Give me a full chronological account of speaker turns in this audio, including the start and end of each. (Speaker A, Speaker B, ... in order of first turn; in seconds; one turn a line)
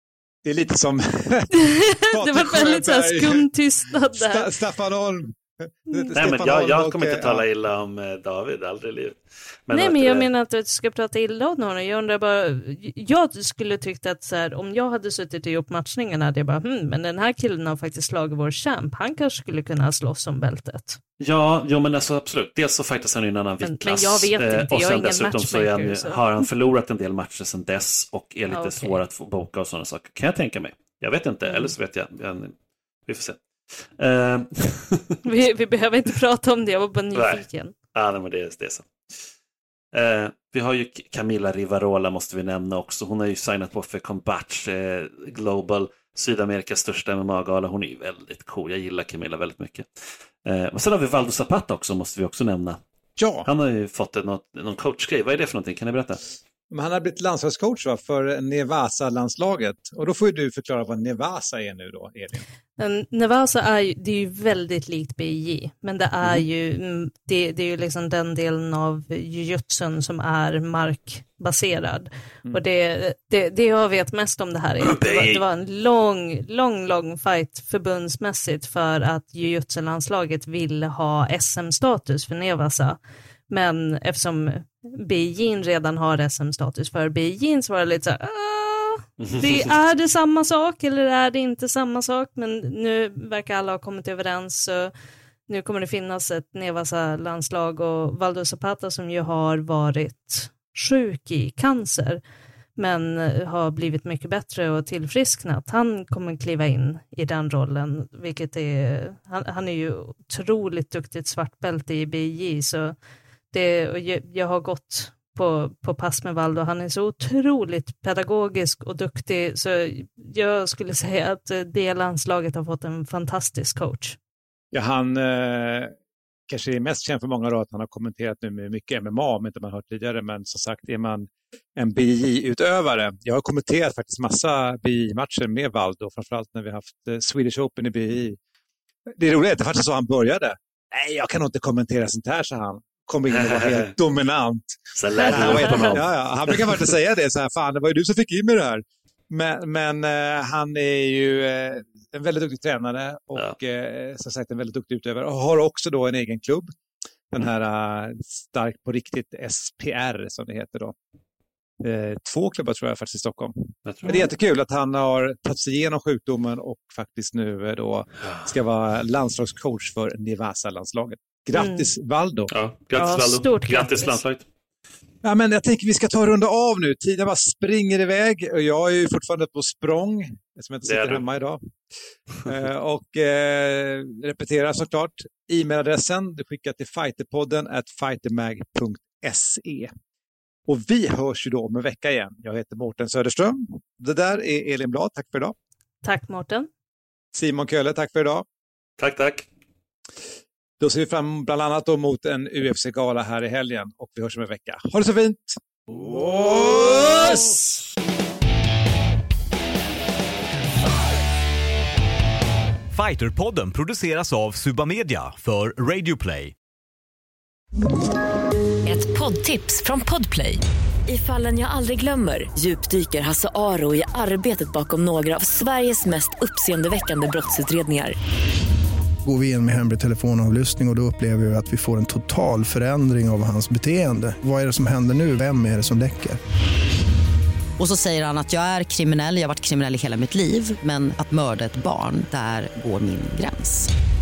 Speaker A: 0.5-3.5
Speaker B: 1.6-4.5
Speaker A: 4.1-7.5
Speaker C: 6.2-10.3
Speaker B: 9.7-21.0
Speaker C: 21.2-32.5
Speaker B: 23.6-26.4
Speaker B: 28.5-29.0
Speaker B: 31.4-31.7
Speaker C: 33.1-35.2
Speaker B: 35.2-37.8
Speaker C: 37.1-38.9
Speaker C: 39.9-49.9
Speaker C: 50.5-52.8
Speaker A: 53.2-53.5
Speaker C: 53.5-56.2
Speaker A: 56.7-62.5
Speaker B: 62.8-94.9
Speaker C: 74.8-75.4
Speaker C: 89.2-89.7
Speaker B: 95.5-102.2
Speaker B: 102.8-113.0
Speaker B: 113.5-124.2
Speaker A: 124.7-125.9
Speaker A: 126.5-138.4
Speaker A: 139.1-156.7
Speaker C: 143.3-143.9
Speaker C: 145.0-146.8
Speaker B: 145.2-146.0
Speaker A: 157.3-160.9
Speaker A: 161.8-172.5
Speaker C: 163.9-164.1
Speaker B: 171.6-171.9
Speaker C: 172.5-174.4
Speaker B: 173.0-174.2
Speaker A: 175.2-181.6
Speaker C: 180.8-181.2
Speaker A: 182.5-189.9
Speaker A: 190.7-195.5
Speaker B: 196.0-196.7
Speaker A: 197.3-198.4
Speaker C: 199.0-199.5
Speaker A: 200.8-207.5
Speaker C: 206.3-207.6
Speaker D: 212.9-216.5
Speaker E: 218.8-228.2
Speaker F: 229.2-236.4
Speaker G: 237.8-243.9